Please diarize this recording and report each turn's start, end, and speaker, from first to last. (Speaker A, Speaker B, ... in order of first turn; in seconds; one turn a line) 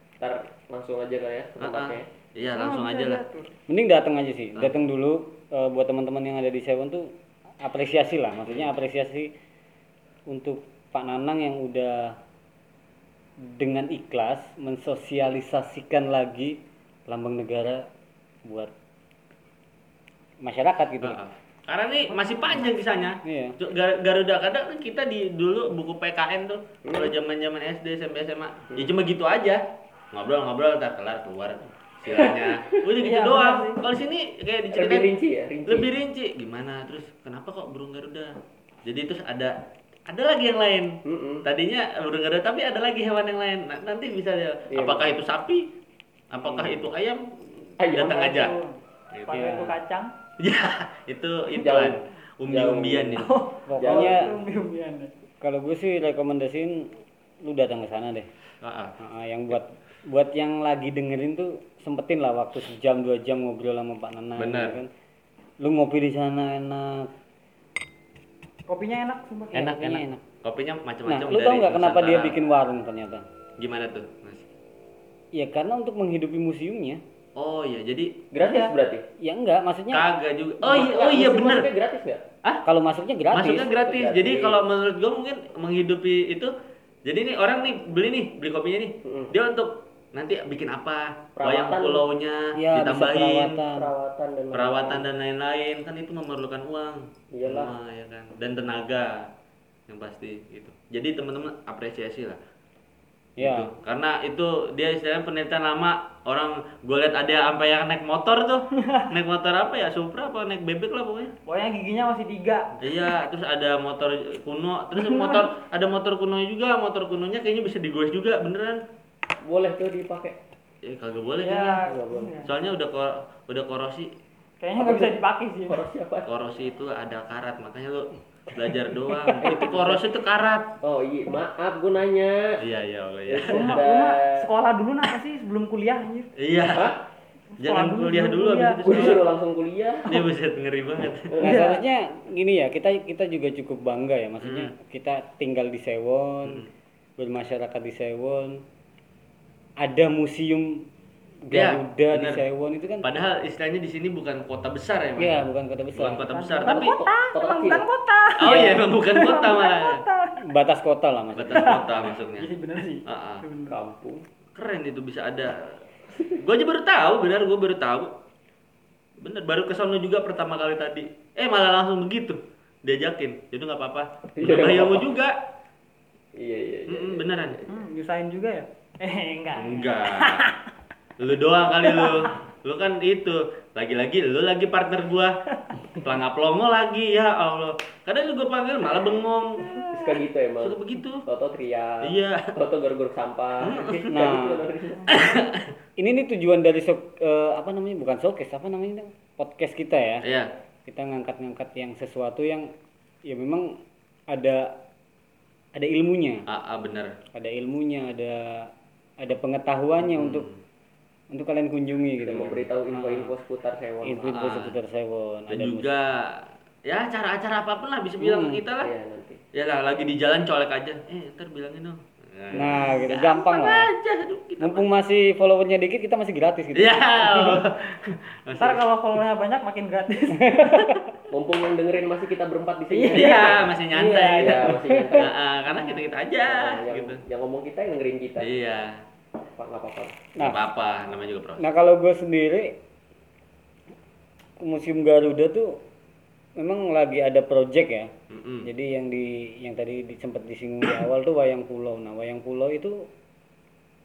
Speaker A: 0.2-2.0
Speaker B: 1.6-3.2
Speaker C: 2.5-3.5
Speaker D: 3.7-9.3
Speaker D: 10.3-12.2
Speaker D: 13.4-17.9
Speaker D: 18.4-18.7
Speaker D: 20.4-21.2
Speaker B: 21.0-35.1
Speaker D: 23.2-23.6
Speaker A: 26.9-27.1
Speaker A: 32.1-32.8
Speaker C: 33.0-33.8
Speaker A: 34.7-35.9
Speaker B: 35.7-38.3
Speaker B: 38.9-39.6
Speaker B: 40.1-45.7
Speaker A: 41.0-41.5
Speaker A: 44.7-45.1
Speaker B: 46.3-48.5
Speaker A: 46.4-46.9
Speaker A: 47.8-48.5
Speaker C: 48.1-50.1
Speaker B: 49.1-49.5
Speaker D: 49.3-49.8
Speaker B: 50.4-53.3
Speaker A: 51.5-53.3
Speaker C: 53.2-55.1
Speaker D: 53.7-54.3
Speaker A: 53.8-54.3
Speaker D: 55.4-58.3
Speaker B: 58.6-59.0
Speaker D: 59.0-64.9
Speaker B: 64.4-64.8
Speaker D: 65.6-67.1
Speaker C: 68.7-69.7
Speaker D: 69.5-70.2
Speaker B: 69.5-72.4
Speaker D: 71.1-73.2
Speaker B: 73.6-74.5
Speaker D: 75.3-77.0
Speaker B: 77.4-78.2
Speaker A: 78.3-79.0
Speaker C: 78.4-78.7
Speaker D: 79.2-80.1
Speaker B: 79.9-81.7
Speaker A: 80.6-82.2
Speaker D: 82.7-83.7
Speaker B: 83.3-86.5
Speaker A: 83.6-84.6
Speaker B: 87.0-93.6
Speaker A: 89.0-89.3
Speaker A: 91.4-92.1
Speaker D: 92.6-93.9
Speaker A: 93.5-95.1
Speaker B: 94.5-99.3
Speaker A: 97.3-97.7
Speaker B: 99.9-102.4
Speaker B: 103.4-111.3
Speaker D: 103.4-103.7
Speaker C: 111.5-112.8
Speaker B: 112.8-118.8
Speaker C: 115.0-115.5
Speaker A: 119.5-120.4
Speaker B: 120.8-121.8
Speaker C: 121.4-122.5
Speaker A: 121.9-122.4
Speaker B: 122.5-124.1
Speaker C: 124.6-125.8
Speaker A: 124.8-125.2
Speaker A: 125.7-126.3
Speaker B: 126.3-130.7
Speaker A: 129.3-130.1
Speaker A: 130.8-132.6
Speaker B: 132.6-133.8
Speaker A: 133.3-134.5
Speaker C: 133.4-136.3
Speaker B: 136.4-137.0
Speaker A: 136.7-137.0
Speaker C: 137.6-139.2
Speaker B: 137.6-139.2
Speaker A: 138.8-140.1
Speaker B: 140.1-141.4
Speaker A: 141.3-141.6
Speaker D: 141.4-146.7
Speaker C: 141.4-141.8
Speaker B: 144.4-144.7
Speaker D: 147.2-148.6
Speaker D: 149.8-150.9
Speaker D: 151.4-153.1
Speaker B: 151.5-152.4
Speaker B: 153.0-157.0
Speaker D: 155.2-156.3
Speaker C: 156.3-160.4
Speaker A: 156.7-157.8
Speaker B: 158.4-160.0
Speaker A: 158.4-158.8
Speaker D: 160.4-162.1
Speaker B: 161.3-162.5
Speaker C: 162.4-163.8
Speaker B: 163.1-163.4
Speaker A: 163.7-164.2
Speaker B: 164.6-165.8
Speaker B: 166.3-168.1
Speaker B: 169.2-175.4
Speaker A: 174.4-175.1
Speaker A: 176.4-177.7
Speaker B: 176.9-177.6
Speaker C: 177.7-180.6
Speaker B: 179.6-180.5
Speaker B: 181.2-185.4
Speaker C: 181.9-182.3
Speaker B: 186.0-189.8
Speaker C: 189.7-190.1
Speaker A: 189.9-195.3
Speaker B: 190.6-191.2
Speaker B: 192.0-192.5
Speaker B: 193.6-194.1
Speaker D: 194.1-194.7
Speaker B: 195.1-195.7
Speaker D: 196.0-200.3
Speaker B: 200.2-200.5
Speaker D: 200.9-202.7
Speaker D: 203.2-204.8
Speaker D: 205.7-206.5
Speaker B: 206.5-207.2
Speaker D: 207.3-208.7
Speaker D: 209.2-210.5
Speaker B: 210.1-210.6
Speaker D: 211.3-213.3
Speaker A: 212.2-214.4
Speaker D: 214.0-215.9
Speaker B: 214.3-214.7
Speaker B: 215.5-218.9
Speaker D: 218.2-218.6
Speaker A: 218.8-219.4
Speaker B: 219.5-224.8
Speaker D: 222.5-223.9
Speaker D: 224.6-227.6
Speaker B: 226.8-228.8
Speaker C: 228.6-231.0
Speaker D: 230.4-231.0
Speaker A: 231.3-233.6
Speaker C: 232.9-234.7
Speaker B: 233.1-237.2
Speaker A: 234.4-235.4
Speaker D: 234.7-235.3
Speaker C: 235.7-236.0
Speaker A: 236.4-238.5
Speaker B: 238.4-239.0
Speaker A: 239.6-240.2
Speaker D: 240.4-240.6
Speaker B: 240.4-241.7
Speaker D: 241.6-242.8
Speaker D: 244.6-245.8
Speaker D: 246.6-248.1
Speaker B: 248.3-248.7
Speaker D: 248.6-253.1